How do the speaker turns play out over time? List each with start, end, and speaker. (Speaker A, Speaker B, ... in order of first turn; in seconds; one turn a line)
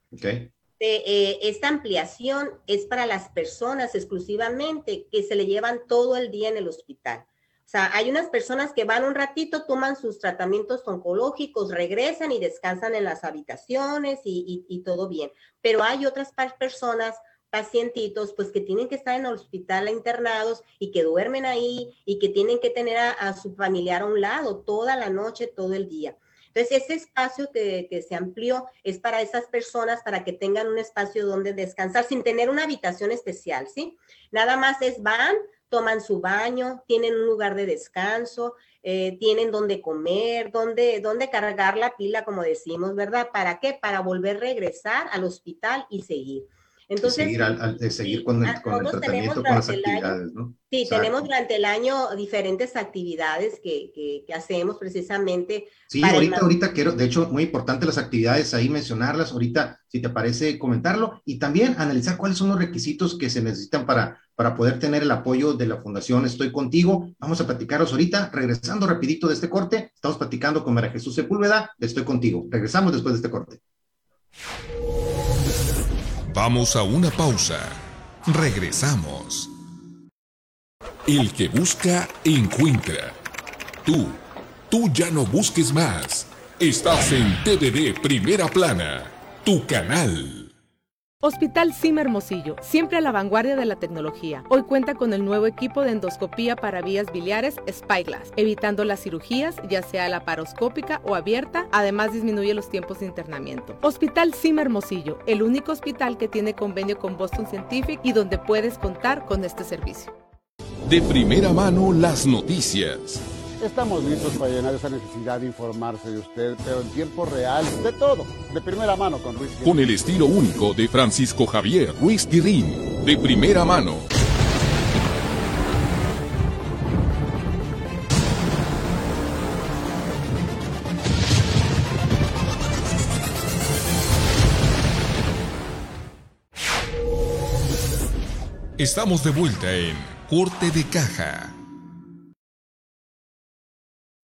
Speaker A: 0.1-0.5
Speaker B: 0.8-47.4
Speaker A: 47.0-51.3
Speaker B: 48.0-50.2
Speaker B: 50.7-56.5
Speaker A: 55.9-73.6
Speaker C: 76.3-79.5
Speaker C: 81.1-83.2
Speaker C: 83.8-84.2
Speaker C: 84.7-90.5
Speaker D: 91.2-110.1
Speaker C: 110.9-113.2
Speaker E: 113.6-119.8
Speaker C: 119.6-124.1
Speaker C: 138.8-141.6